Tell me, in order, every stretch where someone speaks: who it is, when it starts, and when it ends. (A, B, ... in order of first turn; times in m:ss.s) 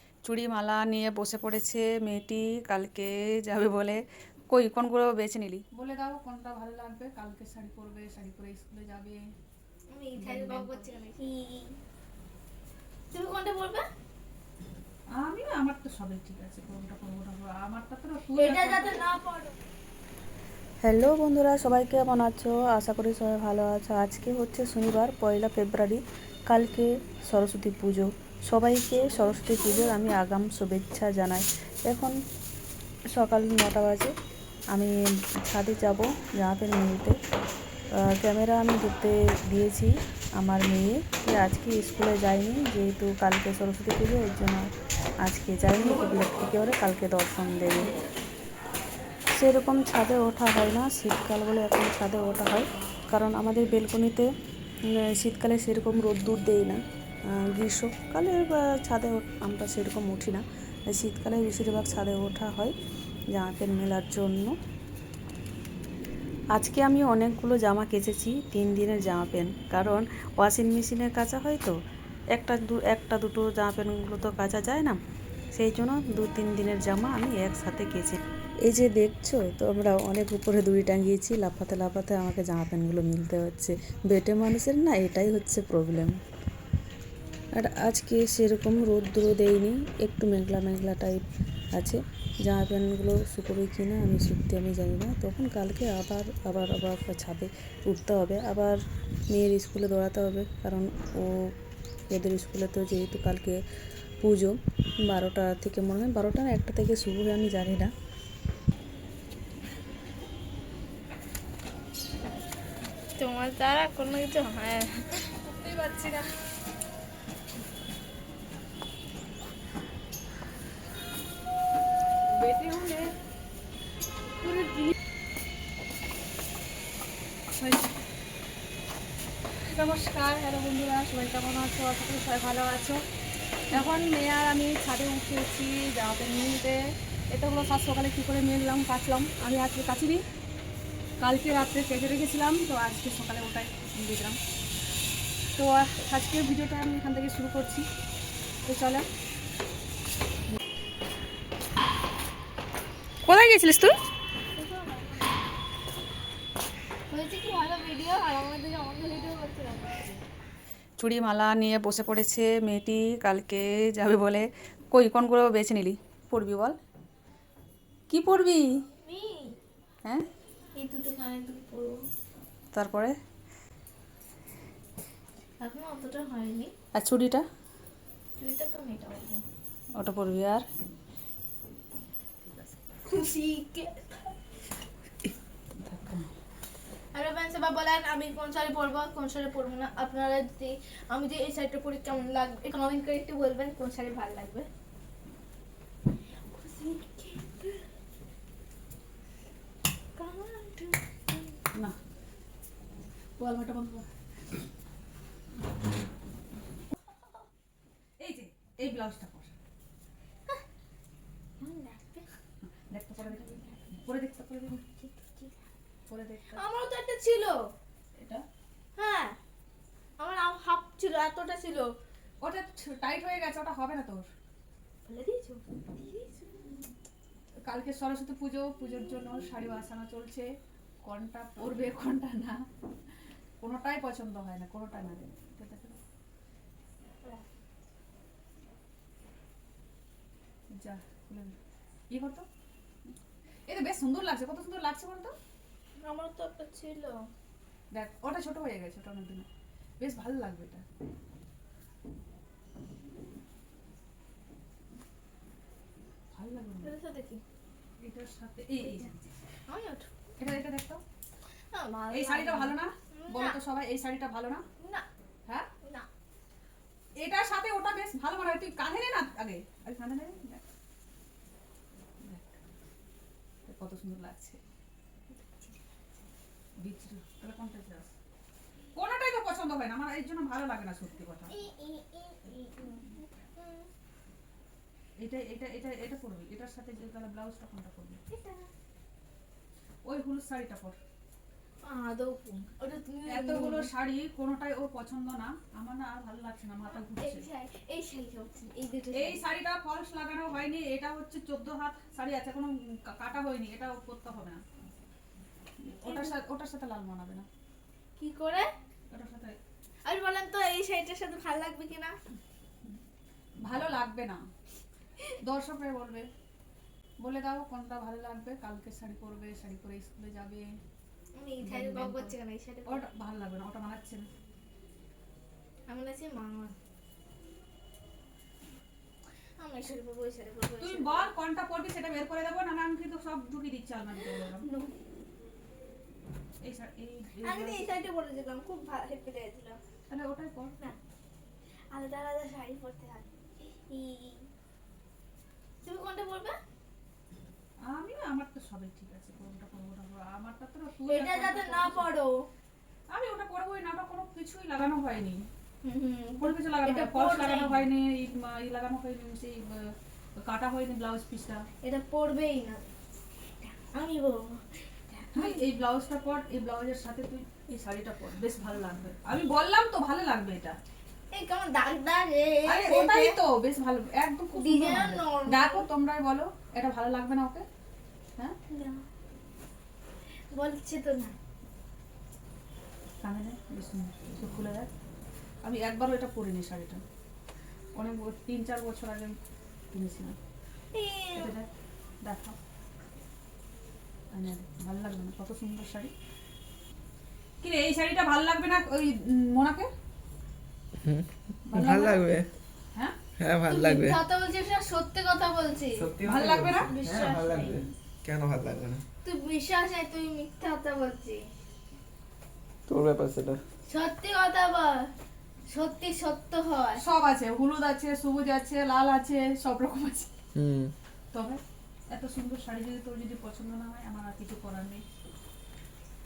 0:00.2-0:09.2 A
0:09.9-0:11.8 B
0:10.2-0:10.9 A
0:13.1-0:13.8 B
0:15.2-0:19.1 A
0:18.3-0:19.6 B
0:20.8-0:32.2 C
0:33.1-0:34.1 C
0:34.7-0:37.2 C
0:38.0-0:44.6 C
0:45.2-0:47.9 C
0:49.3-0:54.3 C
0:54.9-0:56.8 C
0:57.4-1:02.7 C
1:03.3-1:04.5 C
1:06.6-1:11.8 C
1:12.3-1:15.0 C
1:15.6-1:26.2 C
1:27.6-1:31.2 C
1:31.7-1:41.5 C
1:42.1-1:43.6 C
1:44.2-1:47.9 C
1:53.2-1:55.2 B
1:55.3-1:56.2 A
2:02.3-2:03.1 A
2:04.4-2:04.9 A
2:07.5-2:07.9 A
2:09.6-2:13.0 A
2:13.7-2:20.2 A
2:21.2-2:24.4 A
2:25.5-2:27.9 A
2:28.6-2:29.0 A
2:33.2-2:33.9 A
2:34.6-2:35.4 B
2:37.1-2:40.2 B
2:41.0-2:46.8 A
2:48.1-2:48.8 A
2:49.0-2:49.6 B
2:50.7-2:52.0 B
2:52.7-2:53.2 A
2:55.6-2:56.7 B
2:56.9-2:57.5 A
2:58.4-2:59.4 B
3:00.0-3:00.6 A
3:03.0-3:04.3 B
3:05.8-3:06.3 A
3:07.1-3:14.7 B
3:16.5-3:17.9 B
3:20.2-3:21.6 B
3:23.4-3:24.0 A
3:28.2-3:29.5 A
3:31.6-3:32.3 B
3:32.9-3:34.8 A
3:34.7-3:35.6 B
3:36.1-3:36.6 A
3:36.5-3:37.6 B
3:38.2-3:38.4 A
3:39.0-3:39.4 B
3:40.2-3:41.9 B
3:42.4-3:44.3 A
3:45.0-3:46.9 B
3:47.7-3:50.5 A
3:51.0-3:52.6 A
3:53.6-3:56.0 A
4:00.7-4:01.6 A
4:02.1-4:02.4 A
4:03.7-4:05.3 A
4:06.0-4:07.2 B
4:07.9-4:09.5 A
4:10.0-4:10.8 A
4:16.3-4:16.9 A
4:16.8-4:17.4 B
4:18.0-4:19.3 A
4:19.7-4:20.1 B
4:20.4-4:21.0 A
4:21.7-4:23.6 B
4:22.1-4:24.6 A
4:27.2-4:30.6 A
4:32.2-4:32.6 A
4:33.6-4:34.6 A
4:35.3-4:35.9 B
4:36.8-4:38.1 A
4:38.9-4:41.5 A
4:41.5-4:43.9 B
4:45.2-4:48.2 A
4:48.3-4:48.7 B
4:50.0-4:51.0 A
4:51.8-4:53.9 B
4:53.3-4:57.5 A
4:57.0-4:59.4 B
4:59.1-5:04.6 A
5:05.8-5:07.5 A
5:06.0-5:06.3 B
5:08.2-5:08.7 B
5:09.1-5:09.6 A
5:10.0-5:12.2 B
5:13.6-5:14.4 A
5:15.4-5:16.3 A
5:17.2-5:20.7 A
5:21.4-5:23.0 B
5:21.6-5:22.3 A
5:22.9-5:24.3 A
5:25.9-5:26.7 B
5:29.6-5:31.3 B
5:30.8-5:34.6 A
5:34.2-5:34.9 B
5:36.6-5:37.8 A
5:37.4-5:39.8 B
5:40.1-5:40.8 A
5:41.9-5:44.5 B
5:45.8-5:46.6 B
5:47.9-5:52.1 A
5:51.1-5:52.4 B
5:53.1-5:55.4 A
5:55.8-5:57.8 B
5:56.4-6:01.6 A
6:01.8-6:02.8 B
6:03.6-6:05.6 B
6:05.3-6:10.8 A
6:11.3-6:13.4 B
6:12.6-6:17.6 A
6:14.5-6:15.8 B
6:18.7-6:19.0 B
6:20.5-6:21.3 B
6:23.2-6:24.9 A
6:25.6-6:27.0 A
6:27.9-6:29.4 A
6:29.9-6:30.4 A
6:30.9-6:31.5 B
6:31.4-6:31.7 A
6:32.2-6:32.6 A
6:34.3-6:36.1 A
6:37.6-6:39.9 A
6:41.0-6:42.5 D
6:41.7-6:42.2 A
6:43.4-6:44.2 D
6:43.7-6:46.1 B
6:46.0-6:49.0 D
6:46.2-6:46.9 A
6:46.7-6:47.8 B
6:49.2-6:51.5 B
6:52.9-6:53.6 D
6:53.9-6:55.1 B
6:55.7-6:57.0 B
6:57.0-7:00.3 A
7:00.5-7:00.9 D
7:01.3-7:05.0 A